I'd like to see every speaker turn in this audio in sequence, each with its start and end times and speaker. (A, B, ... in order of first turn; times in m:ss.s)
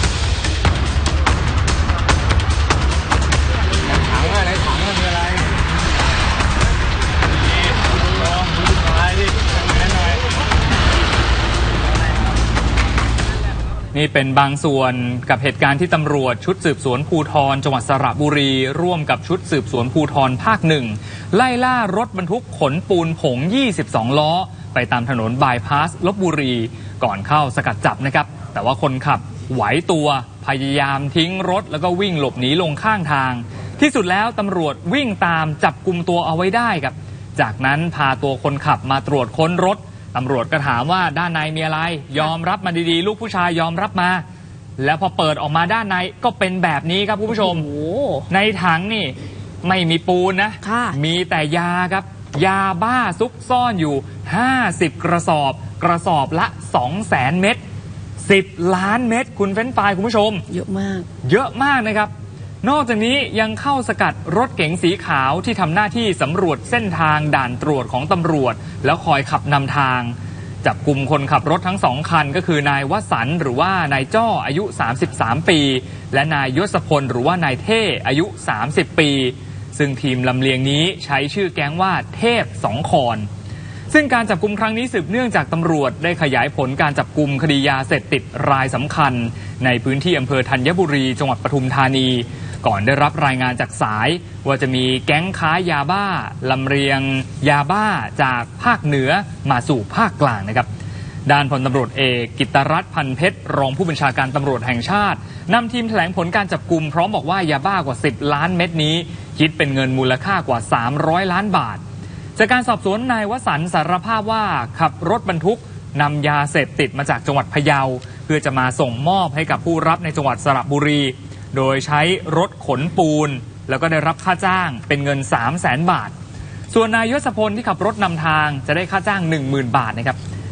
0:04.1-0:04.6 A
0:13.9-0:44.2 B
0:44.8-0:47.7 B
0:47.3-0:48.3 A
0:48.3-0:57.6 B
0:50.6-0:51.0 A
0:58.2-1:00.5 B
1:00.5-1:01.1 A
1:01.2-1:02.1 B
1:02.6-1:23.3 B
1:23.9-1:40.7 B
1:41.2-1:51.8 B
1:52.4-2:06.1 B
2:06.7-2:10.2 B